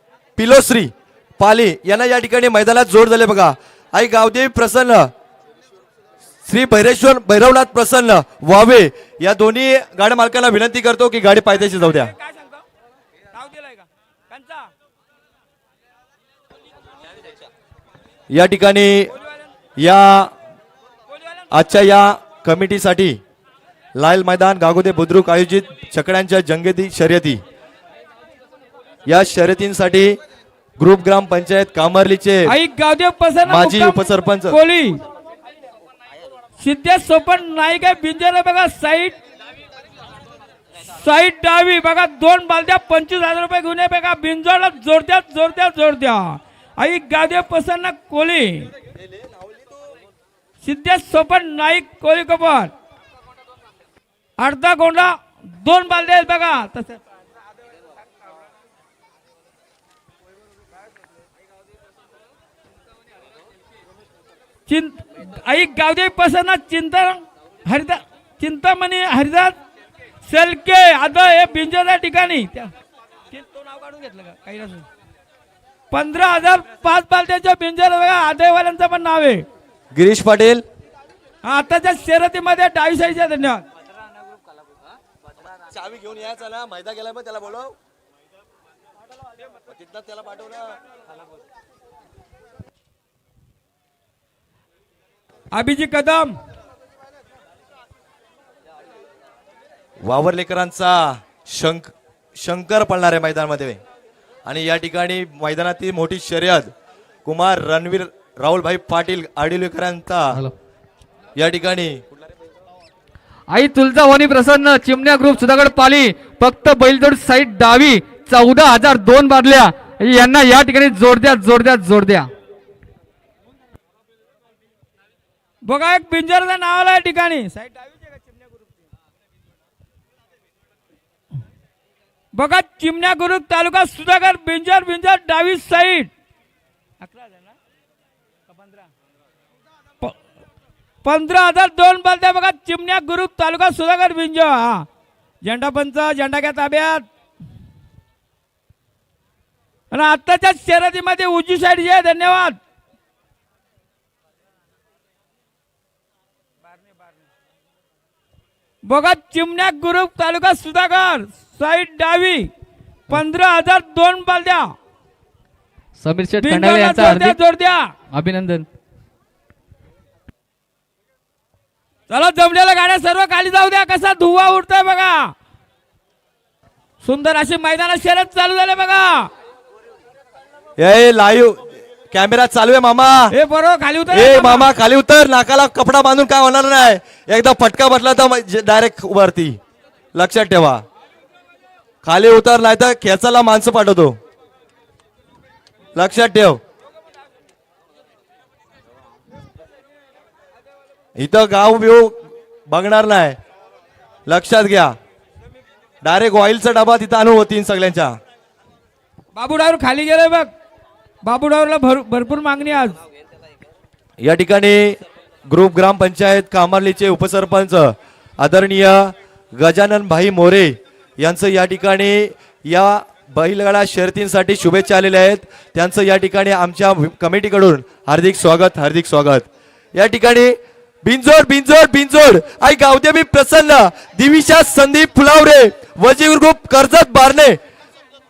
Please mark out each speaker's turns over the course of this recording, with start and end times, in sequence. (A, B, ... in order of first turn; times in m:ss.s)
0:00.4-0:05.1 A
0:06.4-0:12.1 A
0:11.6-0:12.6 B
0:13.3-0:14.7 B
0:18.3-0:19.1 A
0:19.8-0:20.3 A
0:21.1-0:21.5 B
0:21.5-0:23.2 A
0:24.0-0:27.4 A
0:29.1-0:30.2 A
0:30.8-0:32.5 A
0:32.5-0:35.0 B
0:33.5-0:34.6 A
0:36.6-0:39.2 B
0:40.9-0:48.7 B
0:50.6-0:52.7 B
0:54.4-0:57.0 B
1:04.7-1:09.6 B
1:10.2-1:12.7 B
1:13.3-1:14.9 B
1:15.9-1:19.4 B
1:19.9-1:20.6 A
1:21.4-1:23.6 B
1:25.4-1:27.8 A
1:29.7-1:30.8 A
1:35.5-1:36.3 B
1:40.0-1:43.8 A
1:44.5-1:46.7 A
1:47.2-1:50.4 A
1:51.4-1:52.0 A
1:53.5-2:02.3 C
2:05.6-2:08.7 B
2:12.4-2:16.1 B
2:17.0-2:17.6 B
2:18.6-2:18.9 B
2:21.0-2:24.9 B
2:25.4-2:27.1 B
2:29.9-2:32.6 B
2:38.8-2:42.5 B
2:43.1-2:44.7 B
2:46.0-2:47.4 C
2:46.4-2:47.9 B
2:48.1-2:48.7 C
2:52.1-2:55.3 B
2:57.0-2:59.3 B
3:00.8-3:03.3 A
3:03.3-3:04.7 B
3:04.1-3:09.6 A
3:10.1-3:10.8 A
3:12.0-3:14.2 A
3:16.0-3:16.6 A
3:21.2-3:22.2 A
3:22.7-3:23.4 A
3:24.3-3:24.9 A
3:26.0-3:28.2 A
3:29.4-3:30.5 B
3:31.2-3:33.0 B
3:34.2-3:57.6 A